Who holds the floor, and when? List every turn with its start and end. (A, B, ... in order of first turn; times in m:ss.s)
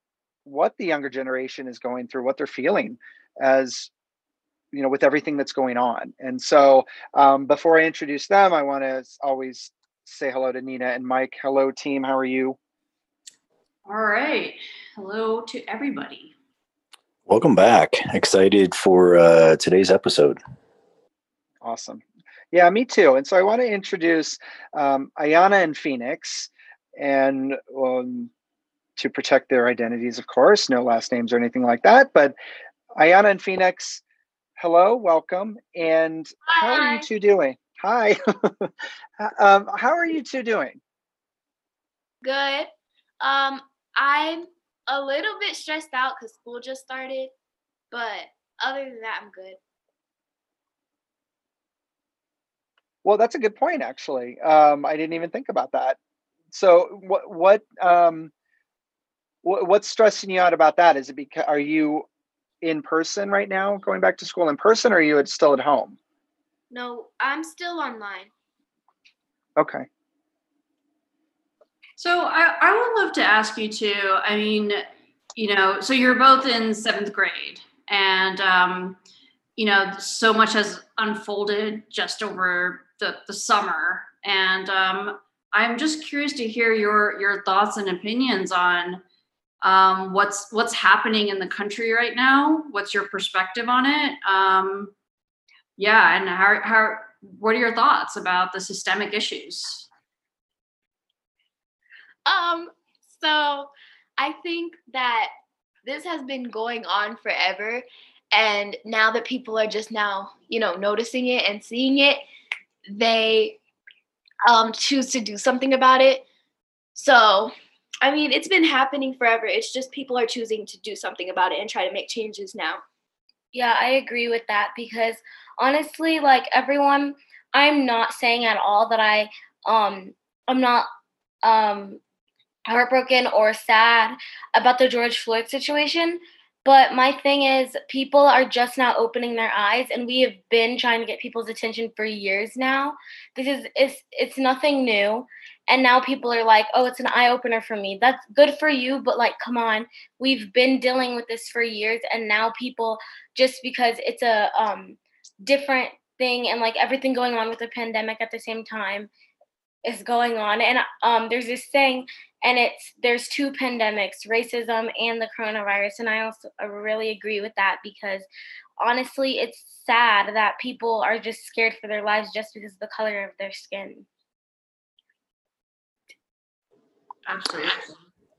0:00.4-0:03.9 A
0:04.7-0:12.6 A
0:13.9-0:16.3 B
0:17.3-0:20.4 C
0:21.6-0:28.3 A
0:29.0-0:32.4 A
0:33.0-0:34.0 A
0:34.6-0:40.8 A
0:42.2-0:42.7 D
0:43.2-0:47.3 D
0:47.9-0:49.6 D
0:53.0-0:56.0 A
0:56.5-0:58.3 A
0:59.4-1:02.0 A
1:02.6-1:06.0 A
1:06.7-1:08.3 D
1:09.6-1:09.9 A
1:12.0-1:14.8 B
1:15.3-1:19.0 B
1:19.6-1:29.0 B
1:29.6-1:34.9 B
1:35.8-1:39.9 B
1:42.2-1:45.3 D
1:45.8-1:52.2 D
1:52.9-1:53.6 D
1:54.4-1:56.2 D
1:56.9-1:57.5 D
1:58.0-2:02.8 D
2:03.5-2:10.9 E
2:11.4-2:12.0 E
2:12.7-2:39.1 E
2:39.8-2:48.3 E
2:48.8-2:54.0 E
2:57.2-2:58.0 B